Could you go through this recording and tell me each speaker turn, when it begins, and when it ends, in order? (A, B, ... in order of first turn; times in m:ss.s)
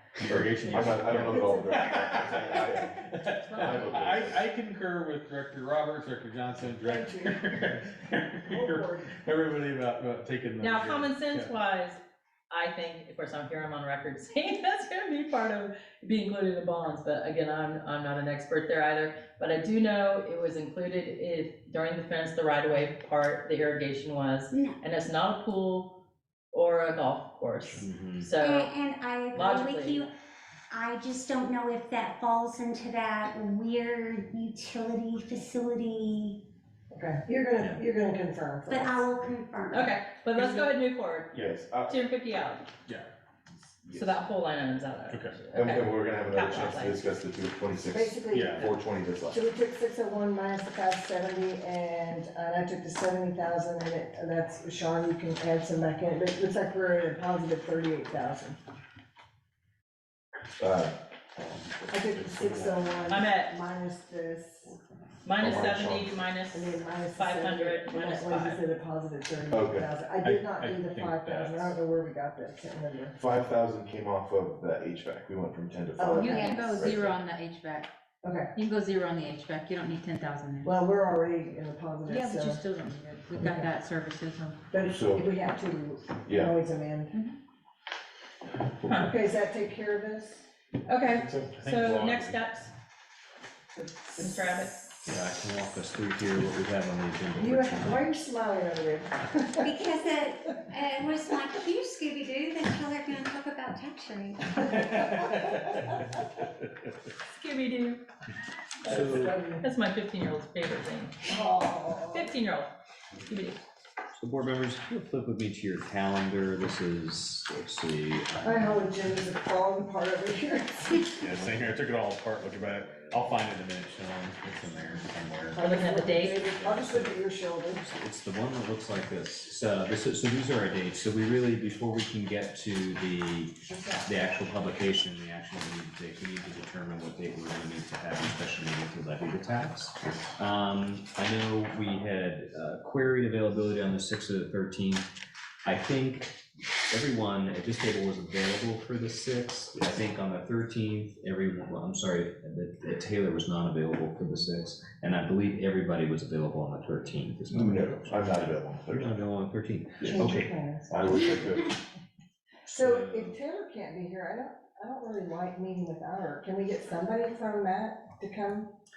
0:00.2-0:11.5 A
0:00.2-0:04.5 B
0:01.2-0:01.9 C
0:02.4-0:02.7 C
0:06.8-0:07.8 C
0:08.4-0:09.2 C
0:10.6-0:12.0 D
0:12.5-0:25.9 D
0:24.5-0:24.8 E
0:26.5-0:28.7 D
0:27.8-0:28.3 F
0:28.3-0:30.1 E
0:29.3-0:30.1 D
0:30.7-0:36.4 E
0:36.9-0:39.1 C
0:38.7-0:40.0 E
0:39.7-0:42.7 D
0:40.4-0:40.7 C
0:41.3-0:42.0 B
0:43.9-0:47.1 D
0:45.1-0:45.4 A
0:45.5-0:49.4 B
0:47.8-0:48.7 C
0:48.3-0:48.7 A
0:49.3-0:58.6 C
1:00.6-1:01.0 B
1:01.5-1:03.0 A
1:01.9-1:04.7 C
1:03.1-1:03.5 D
1:04.6-1:05.0 A
1:05.2-1:08.6 D
1:05.4-1:06.2 B
1:06.5-1:13.2 C
1:09.5-1:09.9 B
1:10.2-1:11.8 A
1:13.2-1:17.1 B
1:16.0-1:17.0 C
1:16.1-1:17.9 G
1:16.3-1:16.6 E
1:18.2-1:18.5 C
1:18.6-1:20.7 G
1:20.6-1:22.6 C
1:22.0-1:24.6 G
1:23.4-1:23.7 C
1:24.7-1:27.1 C
1:24.8-1:25.3 B
1:26.2-1:26.6 B
1:28.8-1:29.1 D
1:28.9-1:30.5 C
1:30.8-1:32.7 D
1:31.1-1:32.4 A
1:33.7-1:34.6 C
1:34.2-1:34.9 D
1:35.0-1:38.1 F
1:37.4-1:39.8 C
1:39.6-1:44.6 E
1:44.7-1:45.6 A
1:47.3-1:48.0 D
1:48.8-1:49.6 C
1:48.9-1:49.4 F
1:49.6-1:51.2 D
1:51.2-1:52.3 C
1:52.1-1:52.7 D
1:53.2-1:53.6 D
1:54.2-1:58.9 F
1:58.4-2:01.2 C
2:01.2-2:05.6 A
2:01.2-2:01.6 F
2:05.5-2:07.8 C
2:05.6-2:06.4 D
2:06.4-2:06.7 A
2:06.7-2:07.1 F
2:07.7-2:25.1 F
2:13.7-2:14.1 C
2:25.6-2:26.4 F
2:26.9-2:40.5 F
2:37.5-2:39.2 B
2:40.0-2:41.8 B
2:40.1-2:41.1 C
2:42.6-2:48.7 C
2:42.8-2:43.4 F